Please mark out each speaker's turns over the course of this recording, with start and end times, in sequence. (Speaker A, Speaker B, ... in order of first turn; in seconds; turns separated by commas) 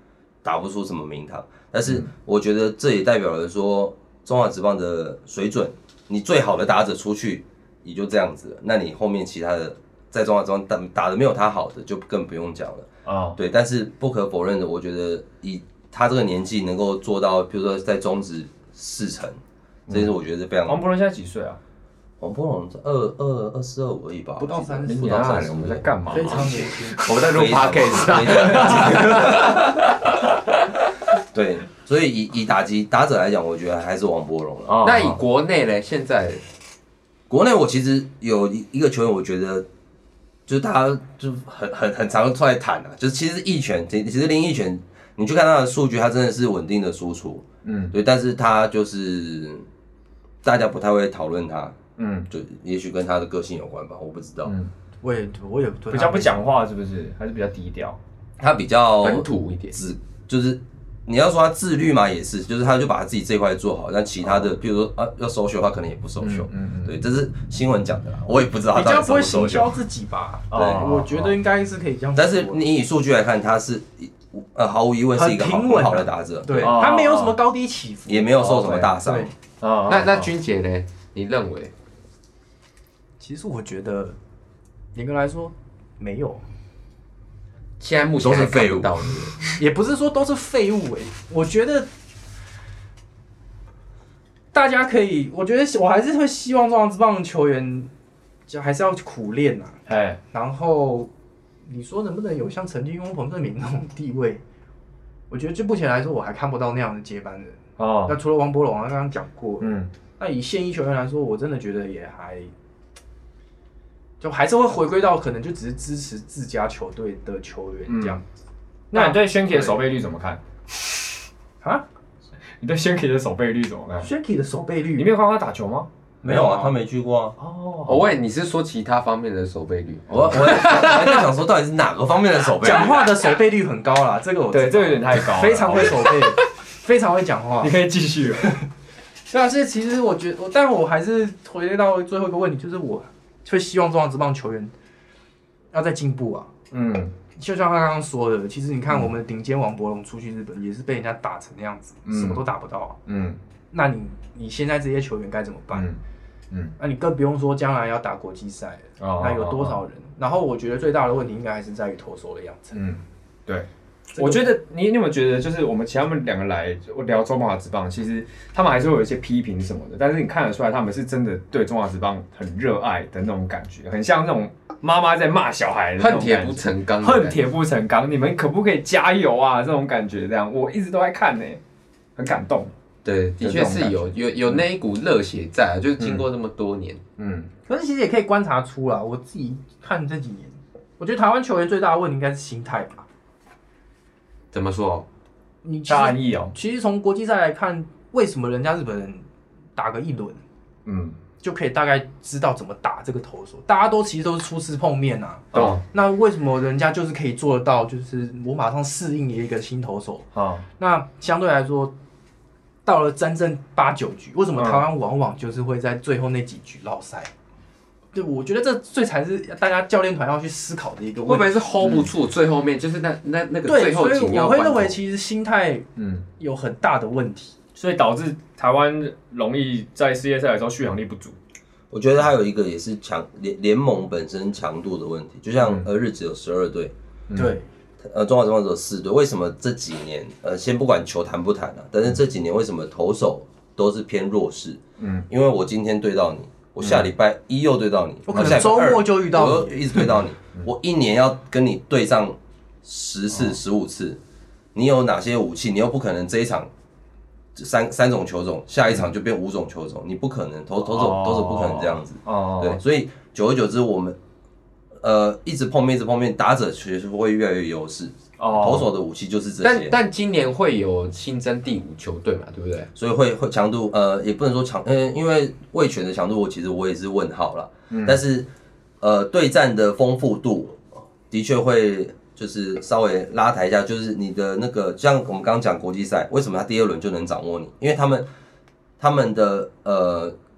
Speaker A: 0.4-20.8, Speaker B: 13.1-13.4, Speaker B: 20.6-21.6, Speaker A: 22.2-29.8, Speaker C: 24.4-25.5, Speaker B: 24.9-26.5, Speaker C: 26.1-27.1, Speaker D: 27.0-29.8, Speaker B: 28.1-29.5, Speaker A: 31.3-34.8, Speaker B: 34.7-35.2, Speaker D: 34.8-36.4, Speaker A: 37.3-39.7, Speaker A: 40.5-49.6, Speaker B: 47.6-47.9, Speaker A: 50.4-51.8, Speaker B: 52.0-52.3, Speaker A: 52.3-54.5, Speaker B: 54.4-54.7, Speaker C: 55.0-56.4, Speaker B: 55.9-58.0, Speaker A: 58.4-69.7, Speaker D: 59.0-59.8, Speaker B: 64.2-64.5, Speaker B: 66.2-67.0, Speaker C: 68.7-72.6, Speaker B: 70.5-71.4, Speaker A: 70.5-70.8, Speaker A: 72.1-76.8, Speaker C: 75.1-79.3, Speaker B: 76.6-77.4, Speaker A: 78.1-79.3, Speaker B: 79.6-80.3, Speaker D: 79.9-81.7, Speaker C: 83.2-84.2, Speaker C: 84.9-86.4, Speaker D: 87.8-89.3, Speaker A: 88.2-89.1, Speaker C: 89.6-91.9, Speaker C: 94.5-97.9, Speaker C: 98.5-101.1, Speaker B: 99.8-100.2, Speaker C: 101.7-104.4, Speaker C: 105.3-112.5, Speaker B: 107.8-108.1, Speaker B: 109.6-109.9, Speaker C: 114.2-118.2, Speaker B: 117.9-118.2, Speaker B: 118.9-120.4, Speaker C: 118.9-119.8, Speaker B: 122.6-124.1, Speaker C: 124.0-125.1, Speaker B: 125.0-126.8, Speaker A: 126.2-127.3, Speaker B: 127.4-128.1, Speaker D: 127.8-131.3, Speaker B: 130.1-130.9, Speaker A: 130.1-133.1, Speaker C: 132.6-137.7, Speaker B: 134.5-136.3, Speaker B: 137.6-138.5, Speaker C: 139.3-144.7, Speaker C: 145.7-146.5, Speaker B: 146.7-147.1, Speaker C: 147.3-153.0, Speaker B: 152.1-152.4, Speaker B: 153.1-153.4, Speaker C: 153.7-155.9, Speaker B: 155.7-156.0, Speaker C: 156.8-162.8, Speaker B: 159.0-159.8, Speaker B: 162.7-181.6, Speaker C: 164.1-164.5, Speaker D: 176.0-177.4, Speaker B: 182.2-182.7, Speaker D: 183.0-187.0, Speaker B: 183.4-184.6, Speaker B: 186.0-186.2, Speaker B: 187.2-187.5, Speaker C: 187.7-193.1, Speaker D: 194.5-195.1, Speaker C: 195.6-200.4, Speaker B: 195.9-196.5, Speaker B: 200.8-201.2, Speaker C: 201.4-211.9, Speaker B: 205.5-205.8, Speaker B: 210.3-210.7, Speaker C: 212.8-217.3, Speaker B: 214.5-214.8, Speaker C: 218.1-221.6, Speaker D: 221.3-225.0, Speaker B: 221.8-222.1, Speaker C: 223.7-225.9, Speaker B: 226.0-226.2, Speaker C: 226.4-227.5, Speaker B: 227.7-231.3, Speaker A: 231.9-236.9, Speaker B: 237.3-237.6, Speaker C: 237.3-237.7, Speaker A: 238.0-254.2, Speaker B: 245.0-245.2, Speaker B: 246.8-247.1, Speaker C: 248.3-249.8, Speaker B: 248.3-248.7, Speaker A: 254.7-256.7, Speaker A: 257.5-264.2, Speaker B: 260.9-262.8, Speaker A: 265.0-269.9, Speaker B: 268.4-268.9, Speaker D: 269.6-272.9, Speaker A: 272.9-278.5, Speaker B: 277.9-278.2, Speaker A: 279.0-288.3, Speaker A: 289.0-290.3